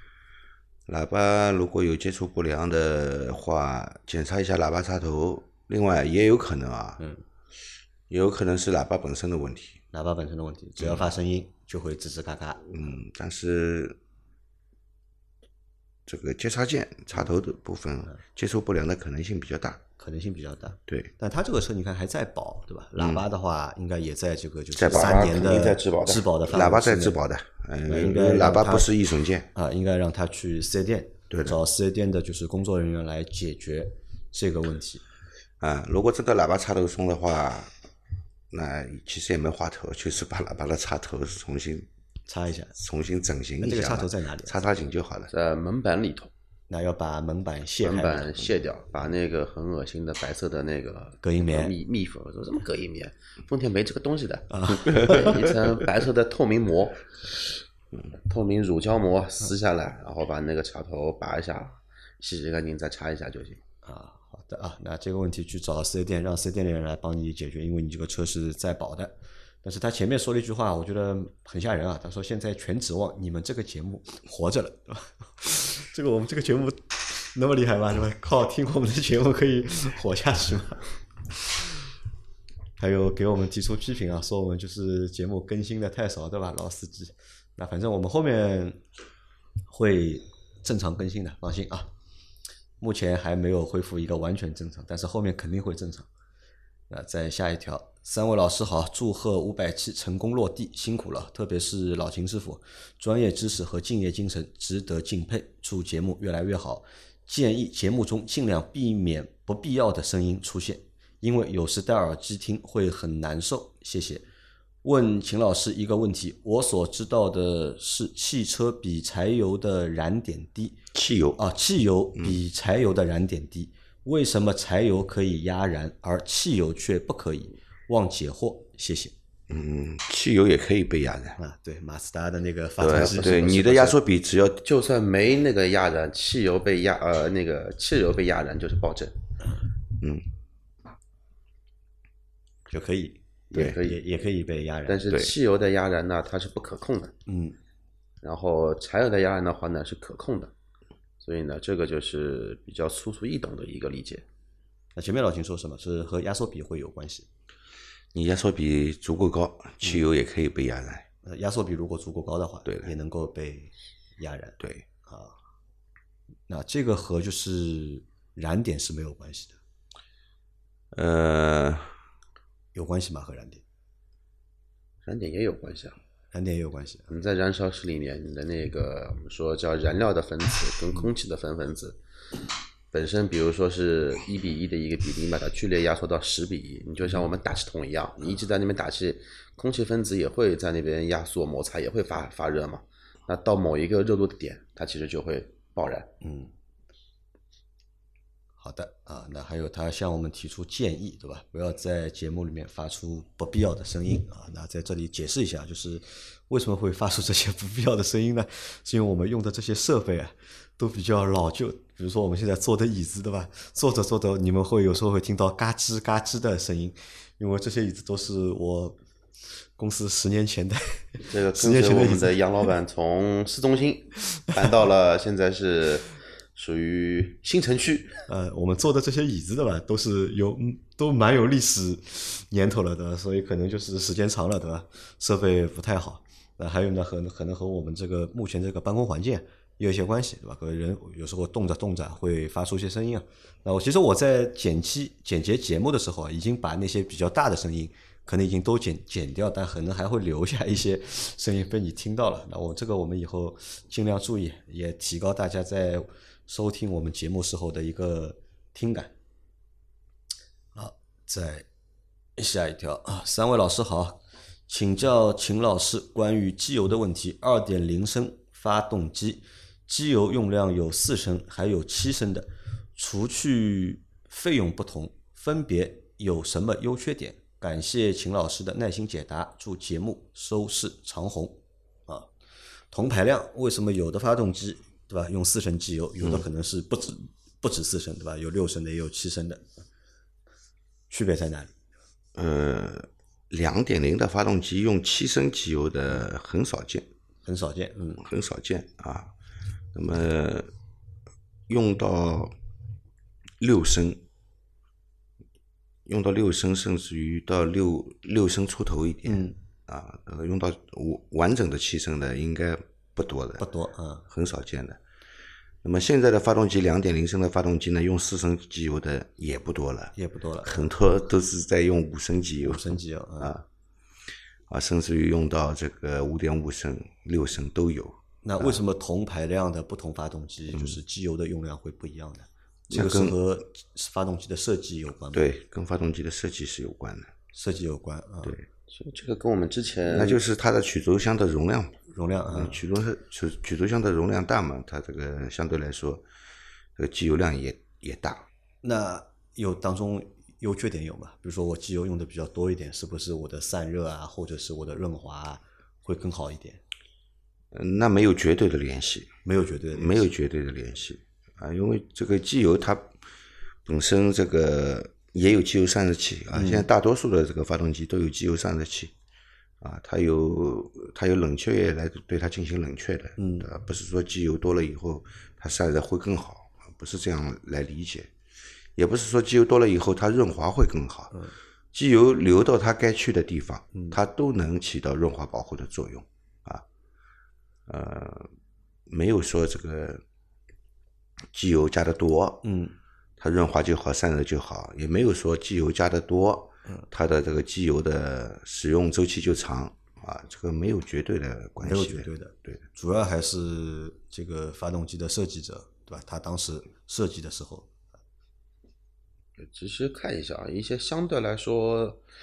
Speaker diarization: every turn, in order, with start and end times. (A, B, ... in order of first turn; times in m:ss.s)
0:00.9-0:07.0 A
0:07.0-0:07.2 B
0:08.1-0:09.8 A
0:09.9-0:13.0 B
0:10.8-0:11.1 A
0:12.7-0:14.0 A
0:16.0-0:19.8 A
0:20.0-0:27.2 B
0:23.0-0:23.2 A
0:24.8-0:25.2 A
0:24.8-0:26.3 C
0:26.5-0:29.5 A
0:27.8-0:28.9 B
0:29.5-0:35.0 B
0:31.3-0:31.6 A
0:35.6-0:37.7 A
0:38.5-0:41.9 A
0:42.3-0:42.7 B
0:42.7-0:45.3 A
0:43.6-0:44.5 B
0:45.3-0:46.3 C
0:46.7-0:48.3 B
0:47.8-0:57.5 C
0:51.2-0:51.7 B
0:54.5-0:55.6 B
0:58.1-1:03.6 C
1:03.8-1:21.6 B
1:22.8-1:28.8 B
1:29.7-1:31.9 B
1:32.8-1:36.1 B
1:36.9-1:54.2 B
1:54.8-2:00.8 B
2:00.9-2:01.4 A
2:01.4-2:09.1 B
2:09.5-2:11.4 A
2:11.4-2:14.0 B
2:12.8-2:14.6 A
2:12.9-2:13.5 C
2:14.6-2:19.2 C
2:22.7-2:25.0 B
2:23.5-2:24.0 C
2:24.9-2:27.1 C
2:27.2-2:27.6 B
2:28.2-2:30.5 C
2:31.2-2:34.2 C
2:34.9-2:37.3 B
2:38.1-2:41.0 A
2:41.2-2:45.4 B
2:42.6-2:42.9 A
2:44.6-2:44.8 A
2:46.5-2:49.6 B
2:50.9-2:51.9 A
2:52.7-2:53.6 B
2:55.0-2:56.0 C
2:56.3-2:57.1 B
2:57.1-3:02.0 C
3:02.9-3:16.1 C
3:16.2-3:16.5 B
3:18.6-3:39.0 B
3:39.5-3:42.3 B
3:41.2-3:48.2 C
3:48.3-4:19.1 B
4:20.7-4:21.6 B
4:22.4-4:42.3 B
4:42.9-4:49.6 B
4:46.2-4:46.4 A
4:51.1-4:51.7 B
4:52.3-4:57.1 A
4:57.4-4:58.2 B
4:58.2-4:59.3 A
4:59.9-5:00.7 A
5:01.7-5:02.5 A
5:03.6-5:04.2 A
5:06.0-5:13.6 A
5:09.2-5:09.6 B
5:13.6-5:14.2 B
5:14.3-5:15.0 A
5:15.8-5:23.6 A
5:20.1-5:20.9 B
5:22.6-5:23.6 B
5:24.7-5:28.8 A
5:28.4-5:35.5 B
5:30.7-5:31.0 A
5:32.9-5:33.4 A
5:35.3-5:37.3 A
5:37.5-5:38.6 B
5:38.9-5:40.4 C
5:40.1-5:46.2 A
5:42.1-5:42.8 B
5:47.0-5:48.5 A
5:48.8-5:56.8 B
5:57.7-5:59.3 A
5:59.4-6:00.3 B
5:59.9-6:03.1 A
6:03.8-6:09.1 A
6:06.5-6:06.9 B
6:09.8-6:18.3 A
6:13.4-6:13.7 B
6:19.0-6:21.4 A
6:21.9-6:26.8 A
6:27.9-6:28.5 A
6:29.1-6:30.2 A
6:31.5-6:32.6 A
6:32.6-6:32.9 B
6:33.4-6:42.8 A
6:41.8-6:47.9 B
6:49.6-6:52.2 C